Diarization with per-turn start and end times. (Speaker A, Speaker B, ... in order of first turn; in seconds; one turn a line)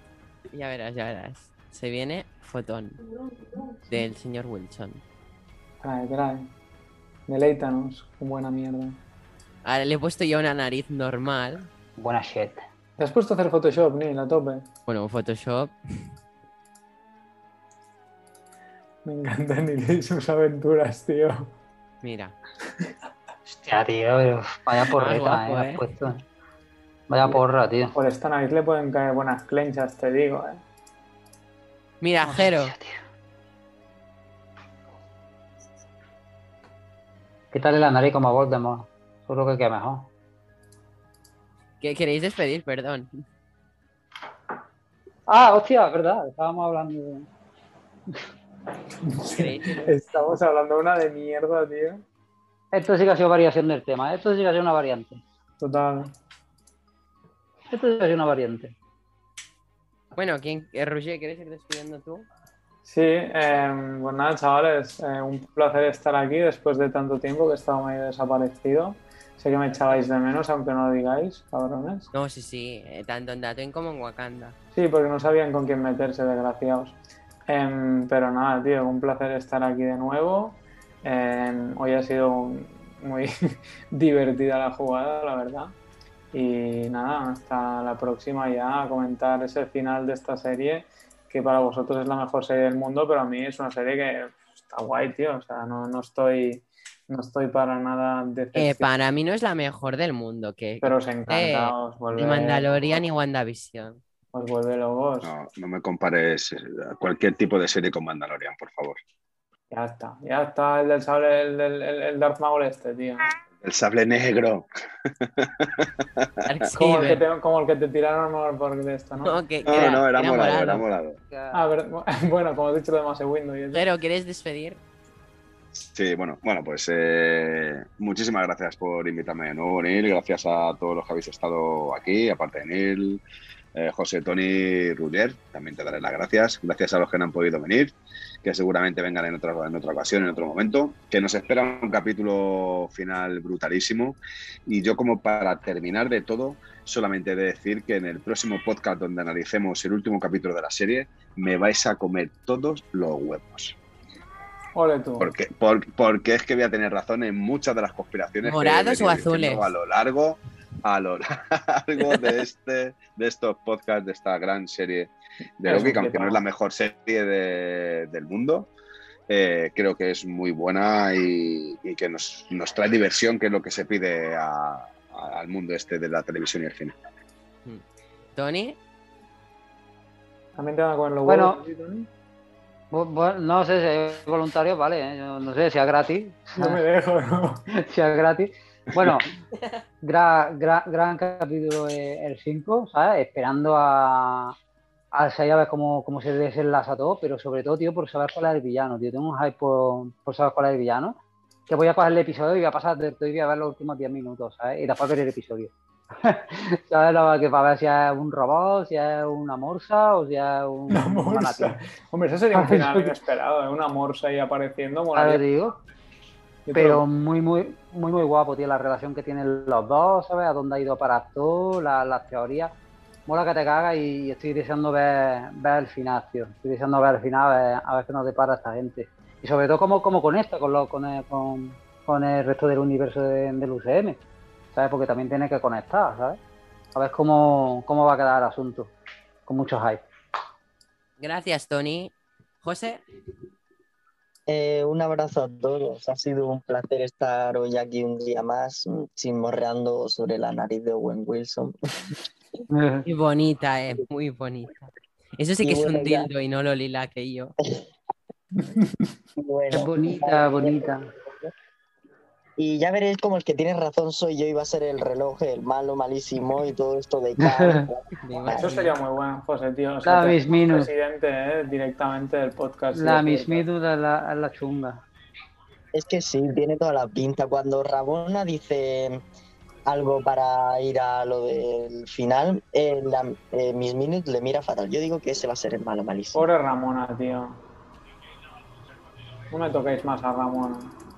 Speaker A: 0.5-3.0
Speaker A: 3.7-5.0
Speaker B: 5.8-6.5
Speaker B: 7.3-9.0
Speaker A: 9.6-11.7
Speaker C: 12.0-12.6
Speaker B: 13.0-14.7
Speaker A: 14.9-15.8
Speaker B: 19.1-21.5
Speaker A: 22.0-22.4
Speaker C: 23.5-26.2
Speaker A: 24.9-25.8
Speaker C: 27.1-28.0
Speaker B: 27.9-30.6
Speaker A: 32.0-32.7
Speaker C: 32.2-33.0
Speaker C: 37.5-40.1
Speaker A: 41.8-43.1
Speaker C: 45.3-47.3
Speaker B: 49.0-52.0
Speaker A: 49.2-50.0
Speaker C: 52.7-55.2
Speaker B: 55.6-56.1
Speaker C: 57.7-58.8
Speaker A: 60.1-62.3
Speaker B: 62.9-72.1
Speaker A: 72.1-74.6
Speaker B: 74.7-83.3
Speaker B: 83.9-85.7
Speaker B: 86.3-98.9
Speaker A: 98.5-104.0
Speaker B: 100.8-103.0
Speaker B: 104.3-105.3
Speaker D: 105.2-109.0
Speaker B: 109.7-113.3
Speaker D: 113.5-116.4
Speaker A: 116.5-117.2
Speaker B: 116.7-119.4
Speaker A: 119.2-120.8
Speaker D: 119.7-121.2
Speaker C: 121.3-121.7
Speaker B: 121.5-123.8
Speaker A: 123.7-124.8
Speaker D: 125.9-133.2
Speaker D: 133.8-153.8
Speaker B: 154.8-155.3
Speaker D: 155.2-168.7
Speaker A: 158.4-159.7
Speaker B: 165.6-166.4
Speaker D: 169.3-177.0
Speaker A: 178.4-178.8
Speaker B: 180.6-182.1
Speaker C: 181.2-181.6
Speaker C: 182.9-186.8
Speaker B: 186.6-187.7
Speaker C: 187.7-189.3
Speaker C: 190.0-194.6
Speaker C: 195.1-211.8
Speaker B: 210.9-215.4
Speaker C: 212.5-213.2
Speaker C: 215.2-215.8
Speaker B: 216.7-217.0
Speaker C: 216.7-222.7
Speaker C: 223.3-234.2
Speaker C: 234.7-236.4
Speaker C: 236.9-238.9
Speaker C: 239.5-240.1
Speaker A: 241.2-243.0
Speaker E: 244.5-251.7
Speaker C: 252.7-253.1
Speaker A: 253.1-257.6
Speaker E: 255.6-256.3
Speaker B: 258.6-259.0
Speaker E: 259.4-261.5
Speaker C: 259.7-261.1
Speaker E: 262.6-268.8
Speaker C: 267.4-267.9
Speaker A: 268.2-268.9
Speaker B: 268.5-273.6
Speaker C: 270.0-270.9
Speaker C: 272.9-275.0
Speaker E: 275.9-279.2
Speaker E: 279.9-286.5
Speaker B: 286.3-287.6
Speaker B: 289.5-290.9